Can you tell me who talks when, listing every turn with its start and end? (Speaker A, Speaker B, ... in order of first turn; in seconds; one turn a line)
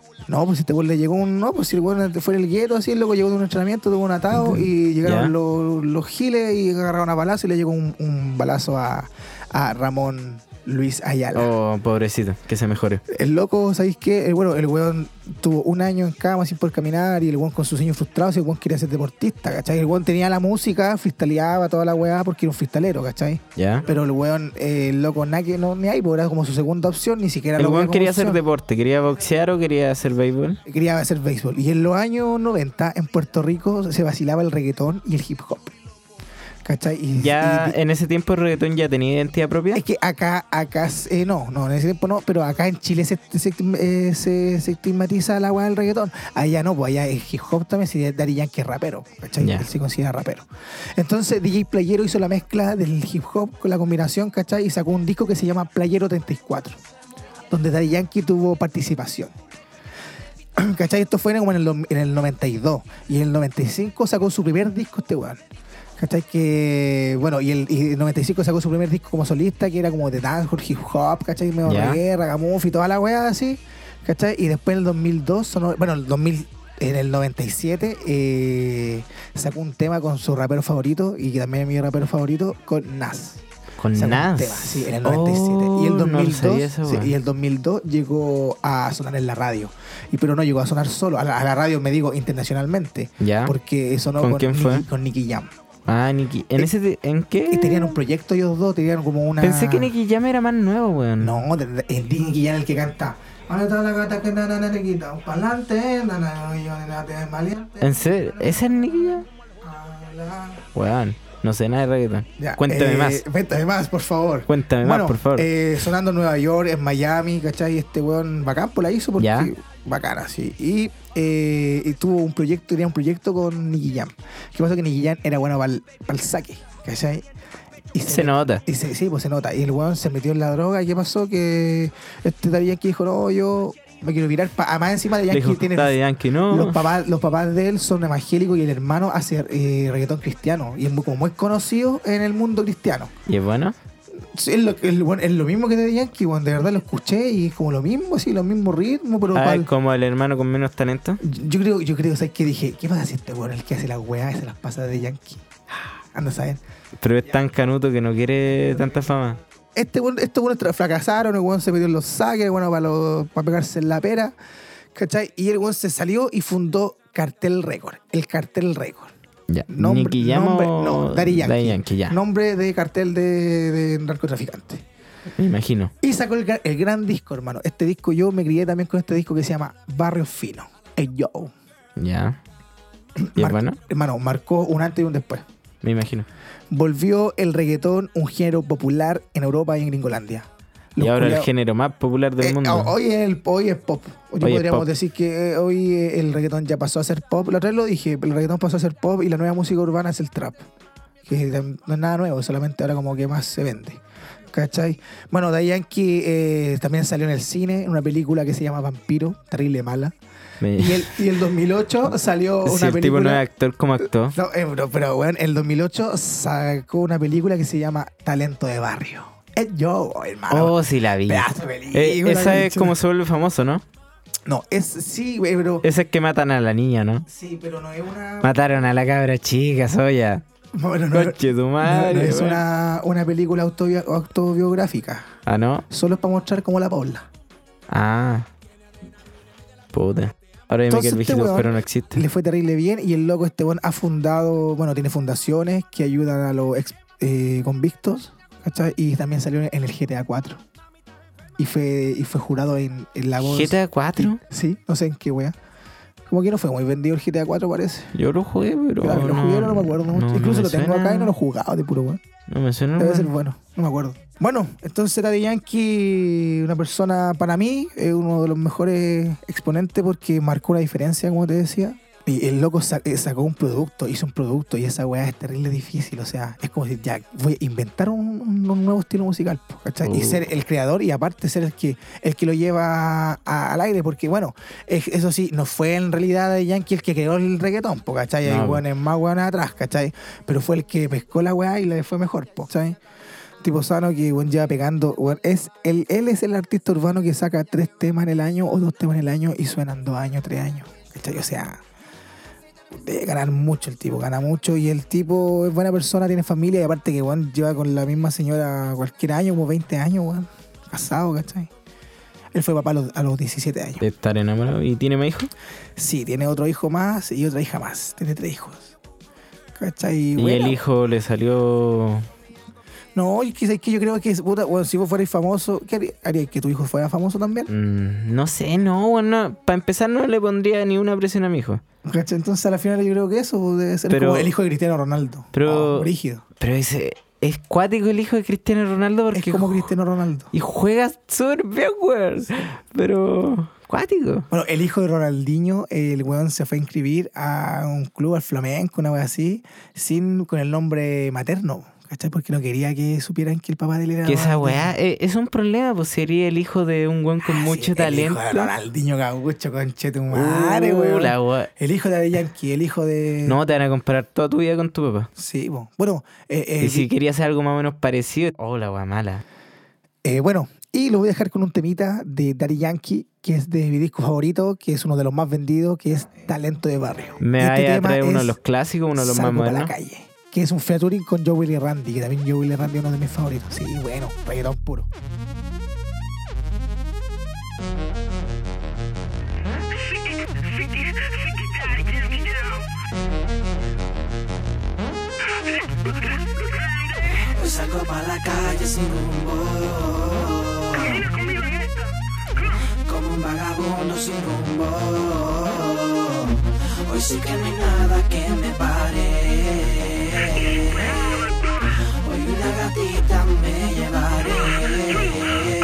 Speaker A: 0.3-11.5
Speaker B: 4.3-5.3
Speaker B: 11.3-13.0
Speaker A: 13.1-28.4
Speaker B: 23.6-23.9
Speaker B: 27.6-30.6
Speaker A: 30.6-35.8
Speaker A: 36.6-37.8
Speaker B: 37.2-39.8
Speaker A: 39.7-56.8
Speaker B: 49.4-49.7
Speaker A: 57.5-59.3
Speaker A: 60.6-65.4
Speaker A: 66.0-83.4
Speaker B: 71.7-72.0
Speaker B: 83.8-87.1
Speaker A: 83.9-95.5
Speaker B: 93.2-93.5
Speaker B: 94.2-94.8
Speaker B: 95.9-98.0
Speaker A: 97.5-99.9
Speaker B: 99.4-101.4
Speaker A: 101.2-110.6
Speaker B: 107.8-109.2
Speaker B: 110.7-113.2
Speaker A: 112.4-127.2
Speaker B: 114.5-115.5
Speaker B: 119.2-119.5
Speaker A: 127.9-143.1
Speaker B: 128.1-128.6
Speaker B: 135.3-136.8
Speaker B: 143.3-143.8
Speaker A: 144.2-149.7
Speaker B: 149.3-151.2
Speaker A: 151.2-156.6
Speaker B: 157.0-159.4
Speaker A: 159.7-164.3
Speaker A: 164.9-169.1
Speaker B: 169.5-172.2
Speaker A: 169.7-174.8
Speaker B: 175.3-175.9
Speaker A: 176.0-181.5
Speaker B: 182.0-182.4
Speaker A: 183.2-185.4
Speaker B: 183.3-183.8
Speaker B: 185.8-186.3
Speaker A: 186.7-191.5
Speaker B: 191.0-192.9
Speaker A: 192.4-200.7
Speaker B: 194.4-194.9
Speaker A: 201.2-204.0
Speaker A: 204.5-210.1
Speaker B: 210.6-211.2
Speaker A: 210.8-213.4
Speaker B: 212.6-214.3
Speaker A: 214.3-222.9
Speaker B: 220.5-223.8
Speaker A: 224.4-225.8
Speaker B: 225.8-227.2
Speaker A: 227.3-228.7
Speaker B: 228.4-230.4
Speaker A: 230.7-235.3
Speaker B: 231.1-232.6
Speaker B: 235.4-235.8
Speaker A: 235.9-237.3
Speaker B: 237.9-238.5
Speaker B: 239.9-242.2
Speaker A: 240.9-250.6
Speaker A: 251.6-255.6
Speaker B: 253.4-254.4
Speaker A: 256.3-258.1
Speaker B: 258.1-261.3
Speaker A: 259.0-262.2
Speaker B: 262.5-263.3
Speaker A: 263.0-293.0
Speaker B: 280.0-280.5
Speaker B: 288.4-288.8
Speaker A: 293.6-301.8
Speaker A: 302.9-311.7
Speaker A: 312.5-314.0
Speaker B: 314.0-315.5
Speaker A: 315.9-318.9
Speaker A: 319.8-320.8
Speaker B: 320.4-322.3
Speaker A: 323.1-327.7
Speaker B: 327.7-331.8
Speaker A: 332.0-336.4
Speaker B: 334.1-334.5
Speaker B: 335.5-339.9
Speaker A: 339.3-340.5
Speaker B: 340.5-344.5
Speaker A: 344.5-354.9
Speaker B: 354.2-358.7
Speaker A: 357.4-363.6
Speaker B: 360.3-361.7
Speaker B: 363.4-365.3
Speaker A: 365.4-367.1
Speaker B: 366.8-369.4
Speaker A: 370.2-378.6
Speaker B: 377.4-379.9
Speaker A: 379.1-385.1
Speaker C: 401.0-401.7
Speaker C: 404.2-404.7
Speaker C: 407.1-408.3
Speaker C: 414.3-415.7